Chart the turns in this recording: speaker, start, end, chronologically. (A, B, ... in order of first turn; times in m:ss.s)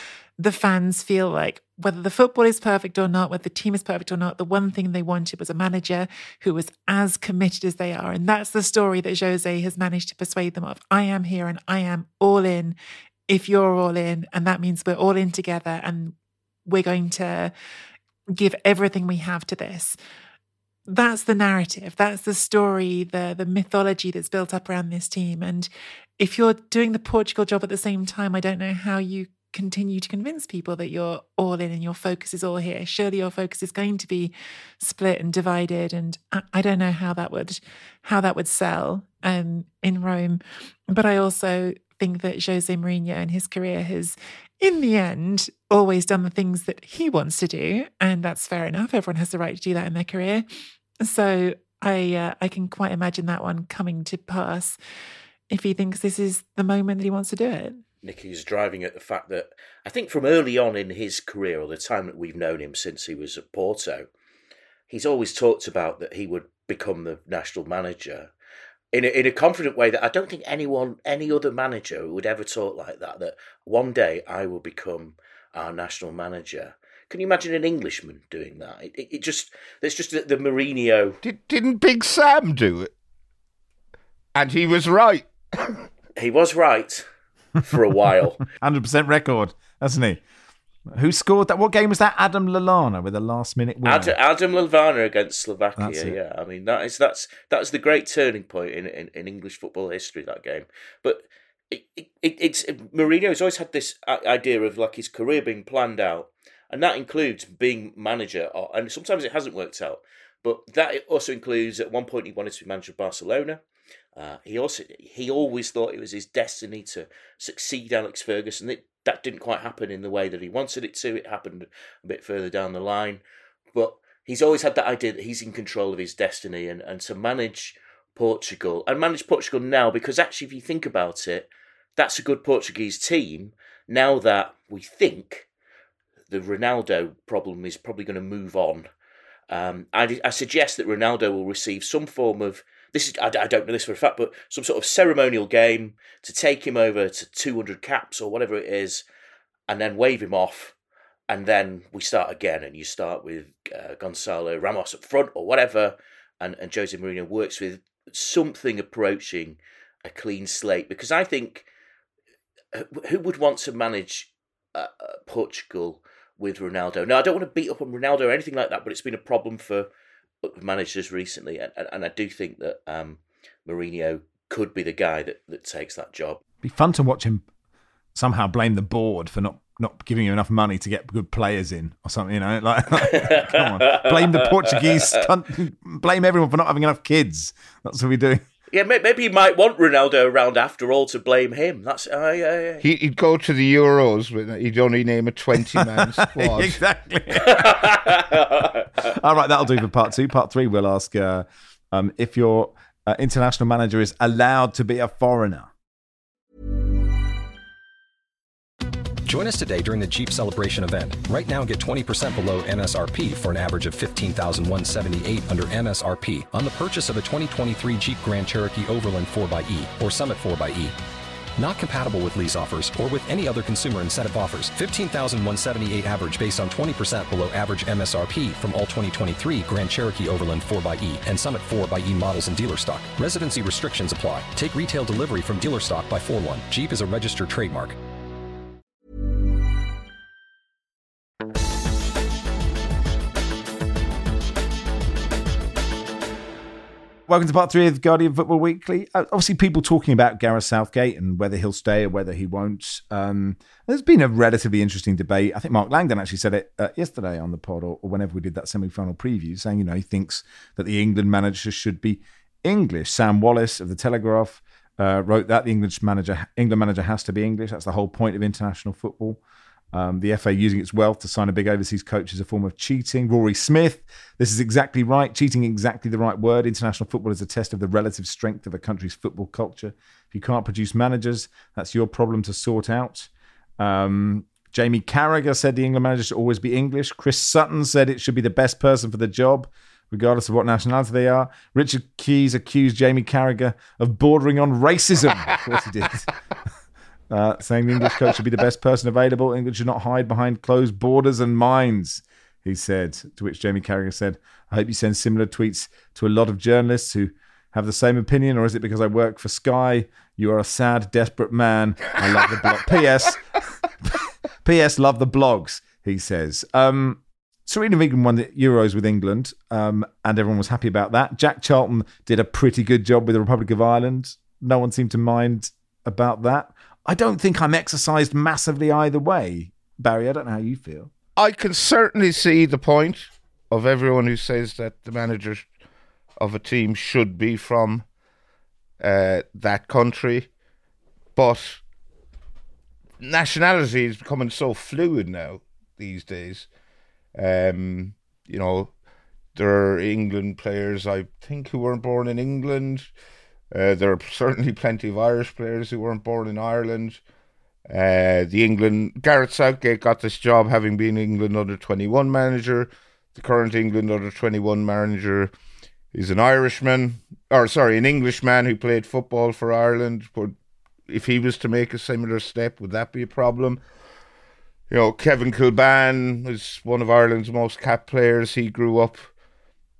0:00.4-0:12.8 A
0:13.3-0:16.1 A
0:16.7-0:17.5 A
0:18.3-0:20.0 A
0:20.9-0:50.4 A
0:51.0-0:54.8 A
0:55.5-0:57.8 A
0:58.0-1:04.1 B
1:04.9-1:08.3 B
1:08.9-1:21.2 B
1:21.2-1:22.9 C
1:24.3-1:25.8 C
1:26.2-1:27.0 B
1:27.6-1:28.4 B
1:28.6-1:30.2 D
1:30.9-1:34.2 D
1:33.8-1:53.6 B
1:35.8-1:36.2 D
1:54.2-2:03.2 B
2:03.7-2:15.4 B
2:16.3-2:18.9 B
2:19.5-2:29.0 B
2:29.7-2:30.7 B
2:31.3-2:41.6 B
2:42.7-2:49.9 B
2:50.4-2:56.4 B
2:56.6-2:57.4 D
2:58.1-3:08.4 D
3:03.0-3:05.2 B
3:08.7-3:12.8 B
3:12.8-3:16.8 C
3:15.7-3:18.2 D
3:17.4-3:19.0 B
3:19.0-3:25.7 D
3:29.2-3:41.0 E
3:41.6-3:58.0 E
4:07.3-4:29.4 D
4:29.9-4:56.3 D
4:57.3-5:31.1 D
5:31.4-5:35.6 C
5:36.4-5:38.0 C
5:39.0-5:40.5 C
5:41.4-5:41.8 C
5:43.2-5:46.7 C
5:47.3-5:48.9 C
5:49.5-5:53.1 C
5:53.7-5:57.2 C
5:57.9-6:05.5 C
6:06.1-6:10.6 C
6:11.1-6:13.8 C
6:14.9-6:19.3 C